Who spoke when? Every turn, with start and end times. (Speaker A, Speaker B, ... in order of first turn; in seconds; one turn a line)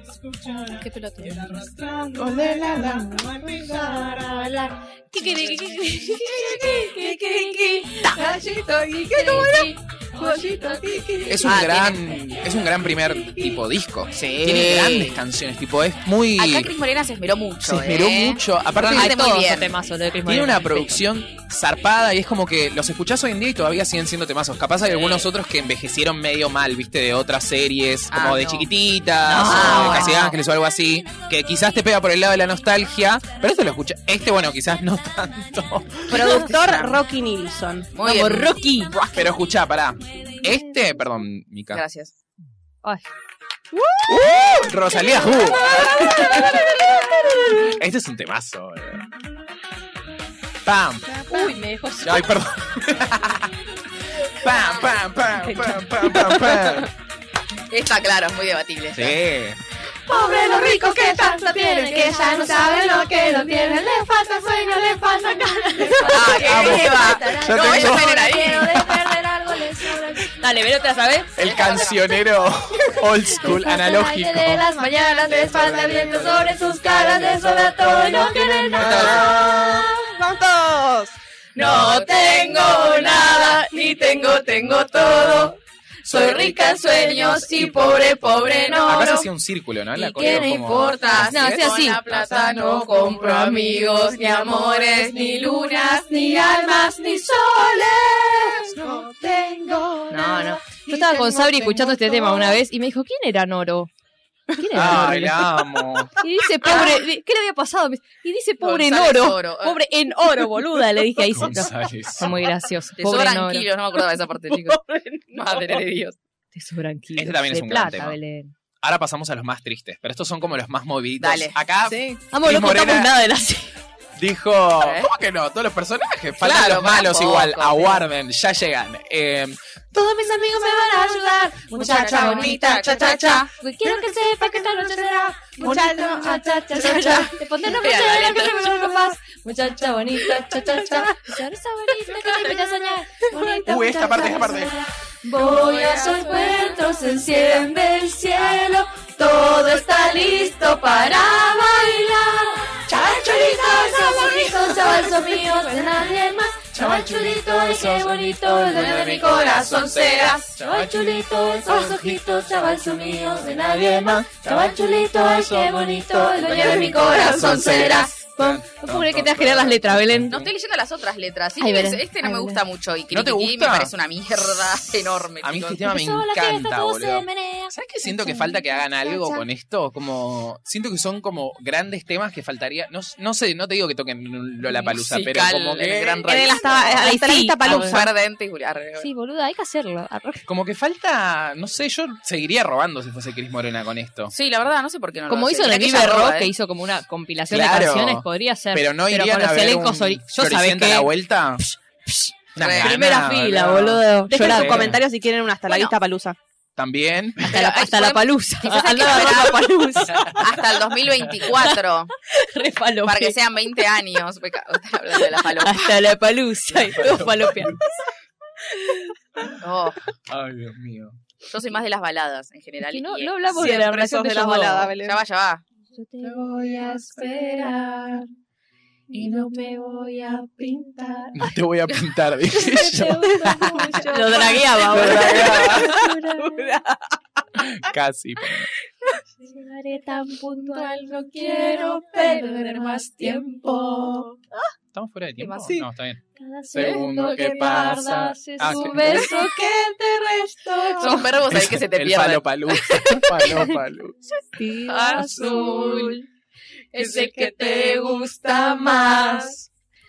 Speaker A: 0.8-11.5
Speaker B: 1.5-4.4
Speaker B: 6.1-7.5
Speaker B: 8.0-9.7
Speaker B: 10.3-10.9
Speaker C: 11.3-16.7
Speaker D: 11.4-12.0
Speaker D: 14.1-15.2
Speaker D: 16.4-19.8
Speaker C: 17.6-19.2
Speaker E: 18.9-21.0
Speaker C: 20.3-36.6
Speaker D: 24.8-25.3
Speaker D: 28.1-28.7
Speaker E: 29.3-30.4
Speaker D: 29.4-30.3
Speaker B: 36.1-37.9
Speaker D: 36.5-36.9
Speaker D: 38.0-38.5
Speaker E: 38.0-39.0
Speaker C: 39.1-41.8
Speaker D: 41.7-42.1
Speaker B: 43.7-44.4
Speaker C: 44.1-46.6
Speaker B: 45.0-47.1
Speaker C: 47.6-49.1
Speaker C: 50.6-51.1
Speaker B: 51.1-51.6
Speaker A: 51.4-52.0
Speaker C: 52.0-53.5
Speaker C: 54.2-56.9
Speaker D: 57.7-59.2
Speaker C: 58.9-59.6
Speaker A: 60.1-70.4
Speaker B: 60.1-63.6
Speaker E: 62.0-62.3
Speaker B: 65.8-66.2
Speaker E: 65.9-68.2
Speaker D: 66.0-68.9
Speaker C: 66.3-68.2
Speaker E: 70.4-71.3
Speaker C: 71.4-74.7
Speaker D: 71.4-72.1
Speaker E: 73.5-73.8
Speaker A: 73.5-80.0
Speaker C: 75.5-76.4
Speaker B: 78.7-81.2
Speaker C: 78.7-79.4
Speaker A: 81.5-89.3
Speaker D: 81.6-83.6
Speaker D: 86.9-87.7
Speaker C: 88.7-91.8
Speaker A: 90.0-91.2
Speaker D: 90.2-95.9
Speaker E: 91.2-92.1
Speaker A: 92.1-102.2
Speaker B: 98.8-99.1
Speaker E: 100.1-103.9
Speaker B: 100.9-102.5
Speaker E: 104.5-105.5
Speaker C: 104.7-106.2
Speaker E: 106.2-113.7
Speaker D: 108.6-109.8
Speaker C: 111.3-112.4
Speaker D: 113.0-114.8
Speaker D: 115.3-116.2
Speaker E: 116.5-118.5
Speaker C: 117.2-118.2
Speaker C: 118.8-123.1
Speaker D: 121.2-121.6
Speaker B: 121.9-122.2
Speaker E: 122.3-123.8
Speaker C: 124.2-129.6
Speaker D: 124.8-125.1
Speaker D: 126.4-128.0
Speaker A: 129.9-137.4
Speaker D: 131.8-133.4
Speaker E: 131.8-132.6
Speaker B: 131.8-133.5
Speaker E: 133.6-134.7
Speaker B: 135.6-137.3
Speaker E: 135.7-136.1
Speaker E: 136.8-140.3
Speaker D: 137.6-138.8
Speaker A: 138.3-141.3
Speaker E: 141.0-144.4
Speaker A: 141.9-168.2
Speaker C: 143.7-144.8
Speaker D: 145.4-146.8
Speaker D: 147.3-147.7
Speaker C: 152.9-154.5
Speaker C: 156.7-160.9
Speaker C: 161.7-162.2
Speaker C: 166.3-170.5
Speaker D: 166.5-168.2
Speaker E: 168.4-170.4
Speaker D: 170.3-175.9
Speaker E: 171.6-172.6
Speaker C: 173.1-173.9
Speaker C: 175.4-186.3
Speaker E: 175.8-177.4
Speaker A: 177.4-177.7
Speaker E: 178.2-178.5
Speaker A: 178.2-178.5
Speaker D: 184.9-187.1
Speaker B: 186.2-188.1
Speaker E: 186.8-188.0
Speaker D: 187.6-189.1
Speaker E: 189.0-190.4
Speaker C: 190.5-194.3
Speaker D: 194.3-196.5
Speaker E: 195.3-201.1
Speaker C: 197.5-201.7
Speaker E: 201.7-205.0
Speaker C: 202.6-205.0
Speaker D: 202.6-203.0
Speaker B: 204.3-206.4
Speaker C: 206.8-207.6
Speaker D: 207.4-212.1
Speaker E: 207.5-210.7
Speaker C: 210.1-210.5
Speaker E: 211.5-213.4
Speaker D: 213.1-216.1
Speaker E: 215.3-217.7
Speaker C: 216.7-217.8
Speaker D: 219.6-220.1
Speaker C: 220.3-221.2
Speaker D: 221.5-223.7
Speaker E: 222.8-224.9
Speaker B: 223.5-225.2
Speaker D: 225.0-225.6
Speaker A: 226.2-228.3
Speaker A: 229.1-231.5
Speaker C: 231.3-234.0
Speaker A: 232.6-236.9
Speaker B: 233.7-234.8
Speaker E: 233.9-236.2
Speaker C: 234.8-236.1
Speaker C: 237.6-238.7
Speaker A: 239.4-244.4
Speaker C: 244.9-249.3
Speaker D: 245.4-245.8
Speaker A: 246.4-251.4
Speaker E: 246.8-247.8
Speaker E: 248.6-249.5
Speaker D: 251.0-253.2
Speaker C: 251.5-254.2
Speaker A: 254.6-256.2
Speaker E: 254.6-256.1
Speaker A: 256.9-259.7